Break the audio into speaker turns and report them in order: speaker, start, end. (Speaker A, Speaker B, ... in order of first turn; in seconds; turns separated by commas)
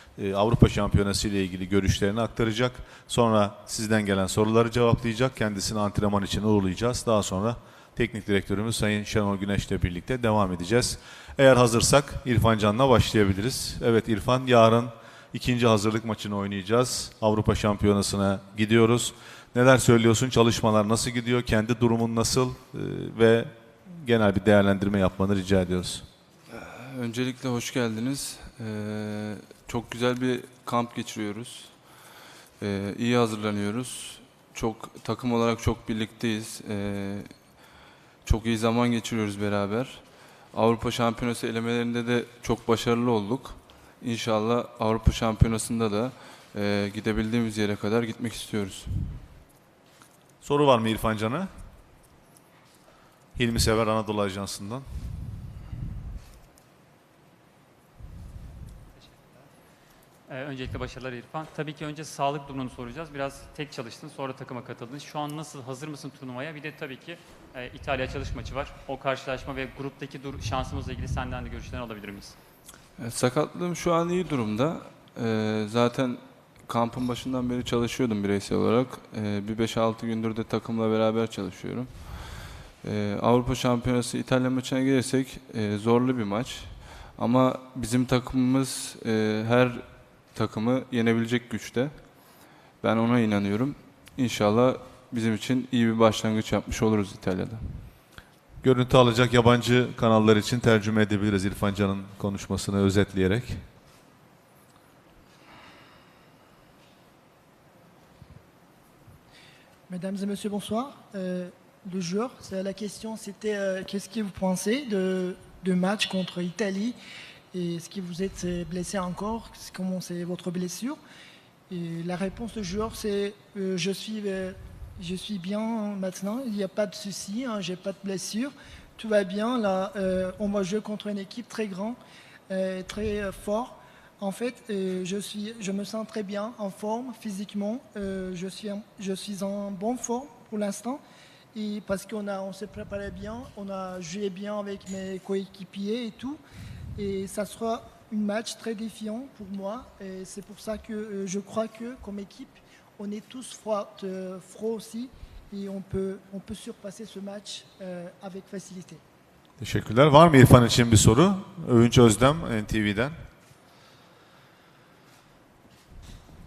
Speaker A: 0.2-26.1, Speaker B: 26.5-31.8, Speaker B: 32.6-37.3, Speaker B: 38.2-49.2, Speaker A: 50.4-51.5, Speaker A: 53.4-54.9, Speaker C: 60.3-72.3, Speaker B: 73.0-92.1, Speaker B: 92.8-97.9, Speaker A: 98.6-103.6, Speaker D: 109.9-117.0, Speaker D: 117.5-121.0, Speaker D: 121.7-132.0, Speaker D: 132.5-141.0, Speaker D: 141.5-146.4, Speaker D: 147.0-159.0, Speaker A: 159.6-163.2